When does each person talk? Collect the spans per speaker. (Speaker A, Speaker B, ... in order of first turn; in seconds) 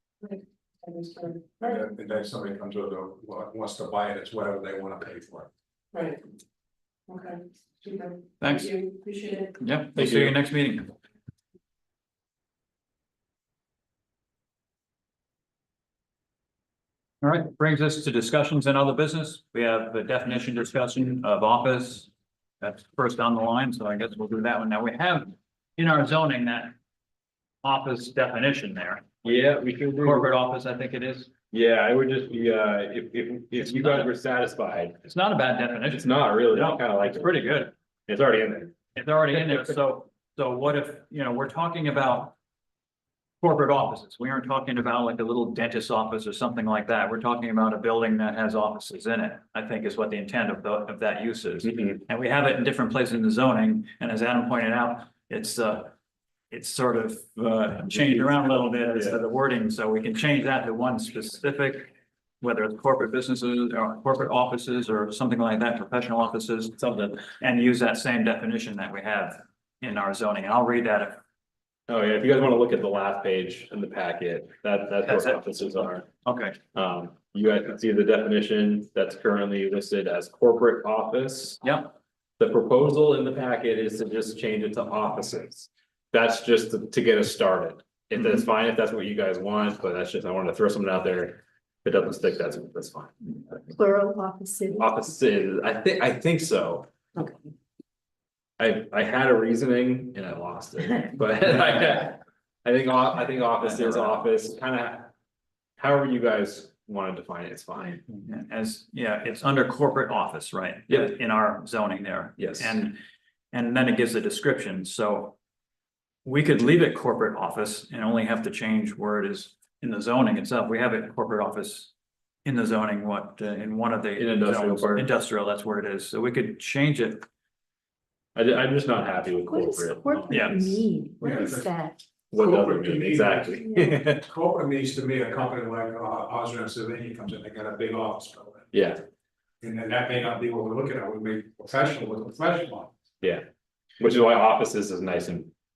Speaker A: 0.2-1.8, 5.9-6.2, 7.1-9.6
Speaker B: 1.6-5.5, 131.2-131.7, 132.3-133.6, 134.1-138.7, 139.6-142.9
Speaker C: 8.4-8.8, 9.6-10.9, 17.2-22.1, 22.6-26.8, 27.6-29.4, 30.0-31.3, 33.5-34.1, 35.0-37.7, 38.9-42.4, 43.4-55.9, 56.5-71.2, 75.0-75.4, 76.2-76.6, 81.6-81.9, 103.6-104.2, 108.1-113.0, 113.5-115.3, 116.2-121.9, 122.4-127.2, 130.3-130.7
Speaker D: 9.9-10.3, 29.2-30.3, 31.5-35.0, 35.9-37.5, 38.1-38.8, 66.8-67.2, 71.9-76.1, 76.7-81.6, 82.4-93.3, 94.8-96.9, 98.6-105.1, 105.8-108.0, 112.4-112.8, 124.2-125.1, 128.3-130.7, 132.3-134.2, 138.7-139.0, 144.0-145.5
Speaker E: 93.7-94.8, 129.5-132.1, 133.6-134.0